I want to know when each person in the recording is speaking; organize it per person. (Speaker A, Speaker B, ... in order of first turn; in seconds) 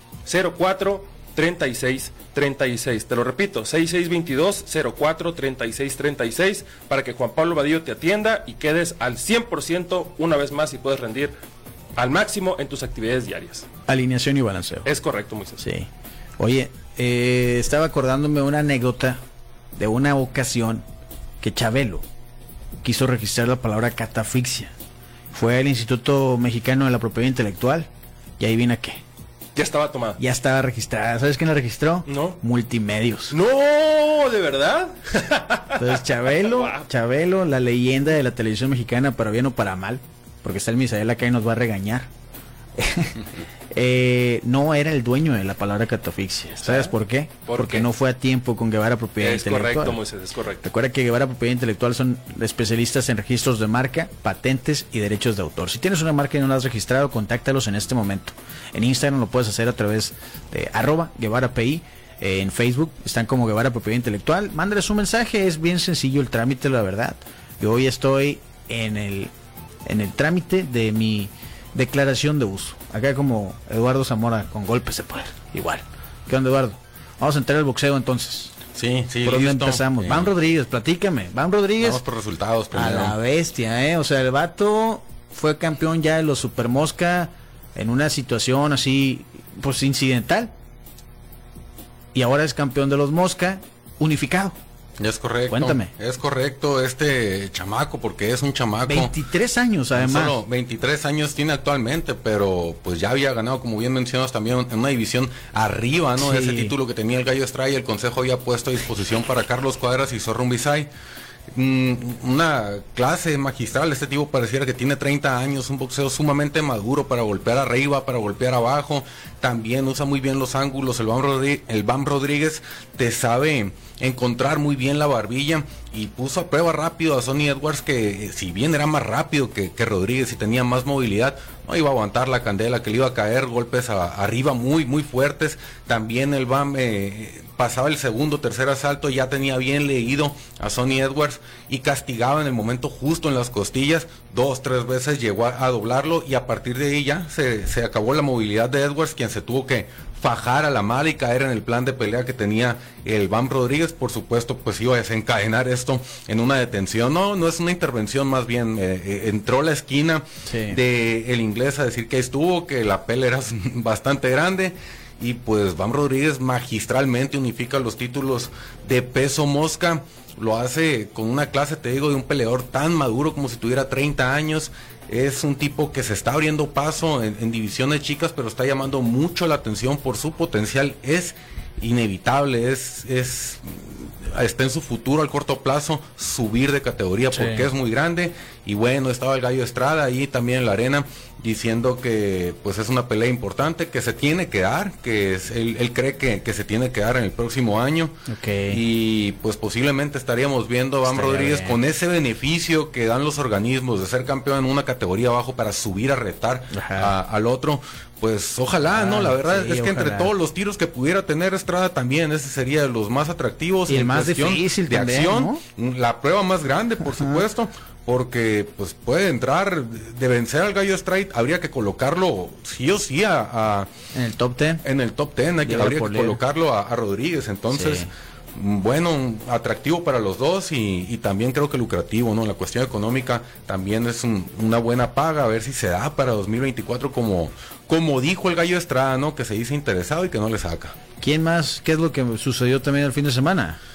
Speaker A: 0.2-11.3, 11.9-13.7, 14.8-15.6, 29.5-30.2, 32.0-32.4, 33.3-36.9, 46.6-46.9, 47.5-47.9, 49.2-50.6
Speaker B: 13.9-14.9, 15.6-15.9, 16.4-19.2, 19.7-20.8, 21.4-22.0, 22.8-24.7, 25.3-29.0, 30.2-33.3, 35.8-42.1, 42.8-50.0, 50.6-69.3, 69.8-78.5, 79.2-82.0, 82.7-90.5, 92.1-94.6, 95.5-95.9, 98.8-100.4, 106.2-106.7, 160.5-160.8, 187.3-187.7, 198.3-198.8, 201.0-201.8, 206.7-207.1, 208.9-210.3, 213.9-215.6, 217.1-217.4, 224.1-224.8, 225.6-226.4, 227.7-228.1, 241.2-243.8
Speaker C: 78.7-80.3, 81.8-83.2, 95.0-99.1, 100.0-110.9, 111.5-223.9, 224.8-240.9